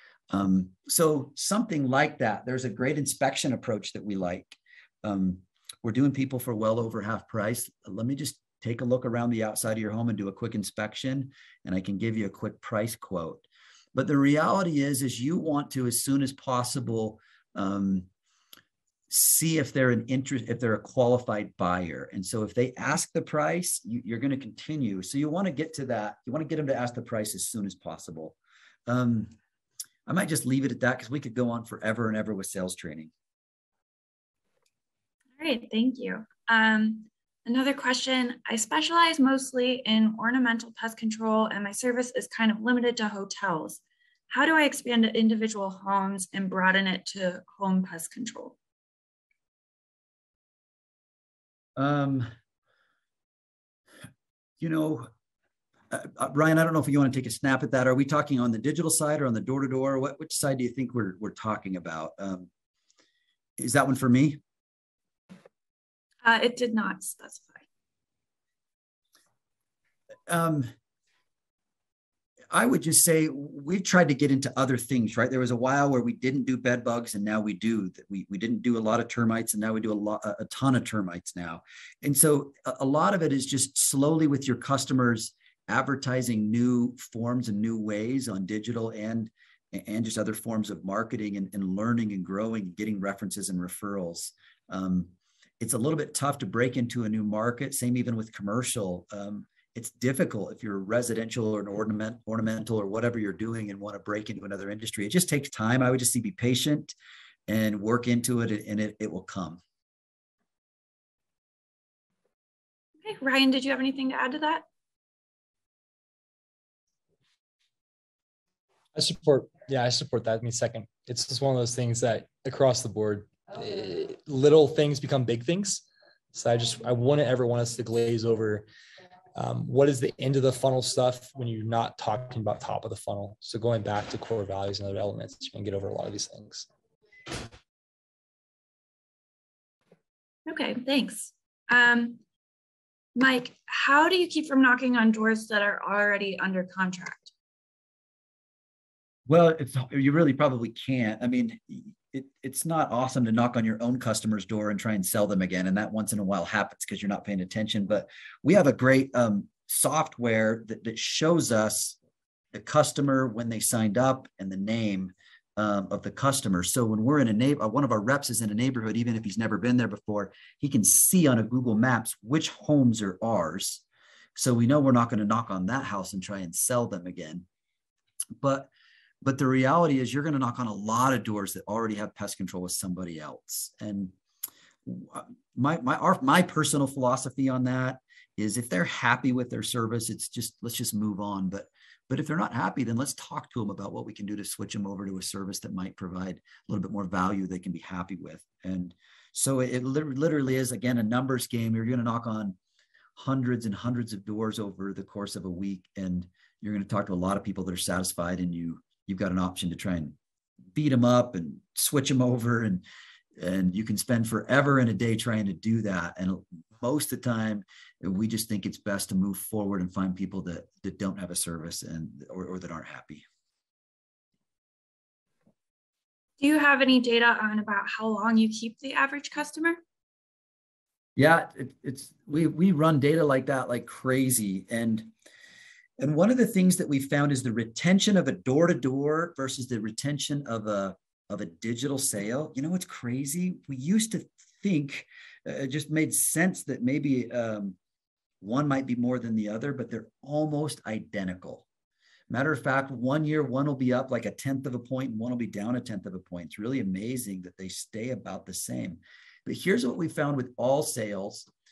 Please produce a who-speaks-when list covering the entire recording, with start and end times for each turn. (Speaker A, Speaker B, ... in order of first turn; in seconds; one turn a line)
Speaker A: 0.3-18.1
Speaker A: 19.1-28.4
Speaker A: 28.9-29.3
Speaker A: 30.1-33.1
Speaker B: 35.4-48.6
Speaker A: 51.8-52.3
Speaker A: 54.6-55.1
Speaker A: 55.9-62.5
Speaker A: 63.6-64.4
Speaker B: 66.2-67.6
Speaker A: 70.3-70.7
Speaker A: 72.5-106.9
Speaker A: 107.5-109.6
Speaker B: 113.0-114.6
Speaker C: 118.9-125.8
Speaker C: 126.3-128.7
Speaker C: 129.3-136.7
Speaker B: 140.4-142.2
Speaker B: 143.1-147.3
Speaker A: 149.3-162.0
Speaker A: 162.5-173.8
Speaker A: 174.3-177.4
Speaker A: 178.4-178.7
Speaker A: 179.2-184.1
Speaker A: 184.8-202.6
Speaker A: 203.2-210.2
Speaker A: 210.7-212.8
Speaker A: 213.4-223.2
Speaker B: 226.4-229.8
Speaker A: 231.2-235.1
Speaker A: 236.0-247.8
Speaker A: 248.4-251.7
Speaker A: 252.3-261.5